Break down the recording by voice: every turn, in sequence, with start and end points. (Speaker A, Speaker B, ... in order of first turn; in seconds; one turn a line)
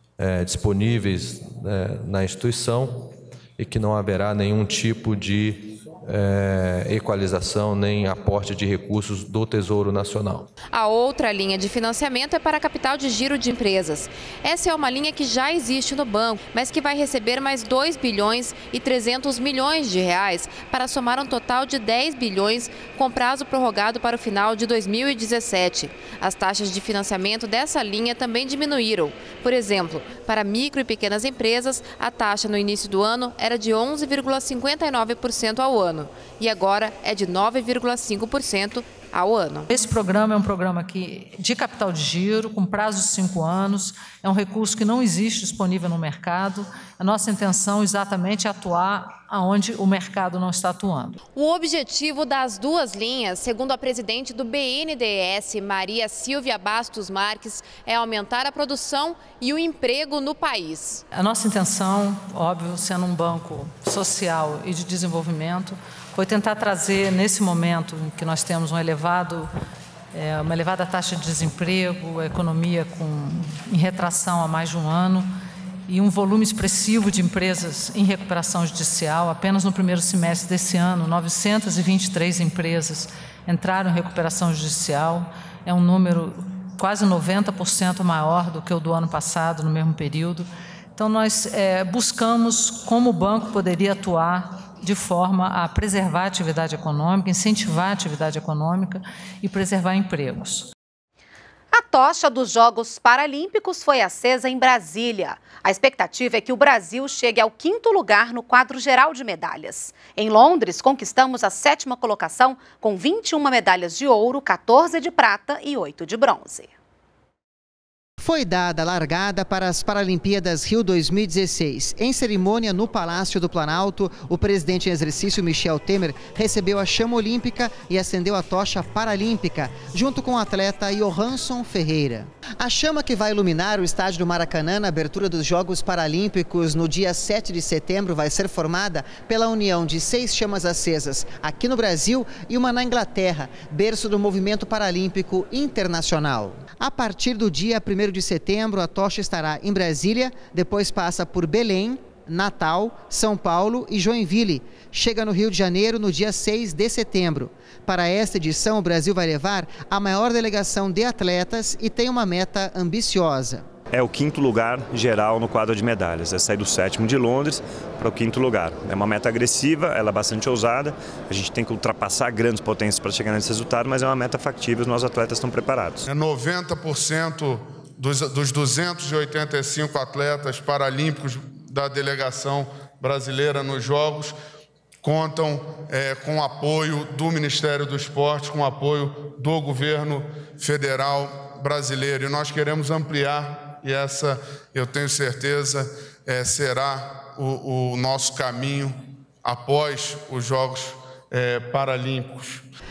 Speaker A: 0.2-10.5
Speaker B: 10.7-39.7
Speaker C: 39.7-51.2
Speaker B: 51.3-61.0
Speaker C: 61.1-69.5
Speaker C: 70.1-75.3
Speaker C: 75.9-100.7
Speaker D: 101.7-116.7
Speaker E: 118.2-163.6
Speaker F: 163.9-176.1
Speaker G: 176.1-184.3
Speaker G: 185.0-202.6